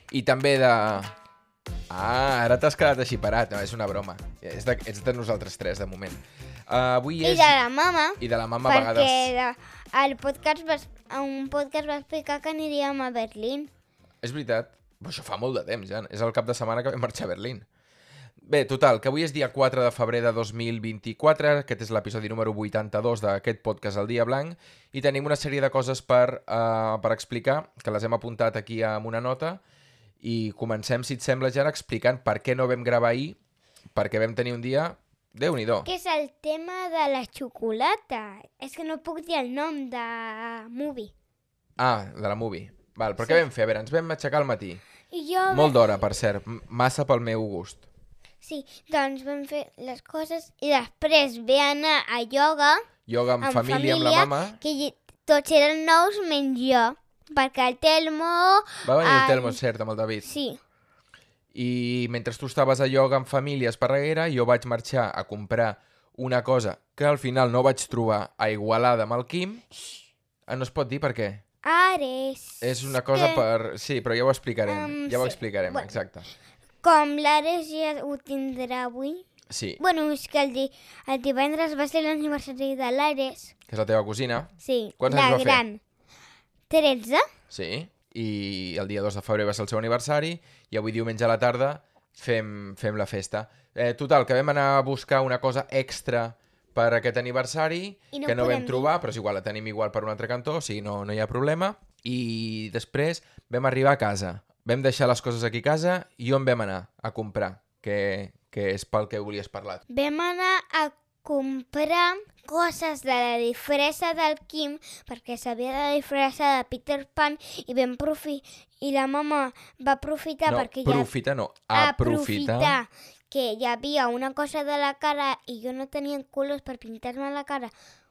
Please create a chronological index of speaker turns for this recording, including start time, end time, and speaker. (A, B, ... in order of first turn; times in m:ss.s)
0:00.1-0:01.1 A
0:01.9-0:07.6 A
0:07.2-0:13.7 B
0:08.2-0:09.3 A
0:14.2-0:17.7 A
0:18.4-0:29.6 A
0:30.2-0:33.4 A
0:34.0-0:35.9 A
0:35.8-0:41.1 B
0:41.8-0:44.8 A
0:45.1-0:45.8 B
0:45.5-0:47.9 A
0:48.4-0:52.9 B
0:53.1-0:54.6 A
0:53.4-0:59.6 B
0:58.8-1:00.2 A
1:00.2-1:00.6 B
1:01.5-1:09.6 A
1:10.5-1:11.4 A
1:11.6-1:13.5 B
1:12.6-1:16.3 A
1:14.7-1:16.0 B
1:16.8-1:19.2 B
1:19.5-1:19.8 A
1:19.8-1:23.5 B
1:23.7-1:25.6 A
1:24.6-1:25.8 B
1:26.7-1:27.3 B
1:27.5-1:49.8 A
1:38.1-1:38.9 B
1:49.9-2:01.1 B
2:00.5-2:02.8 A
2:01.7-2:07.7 B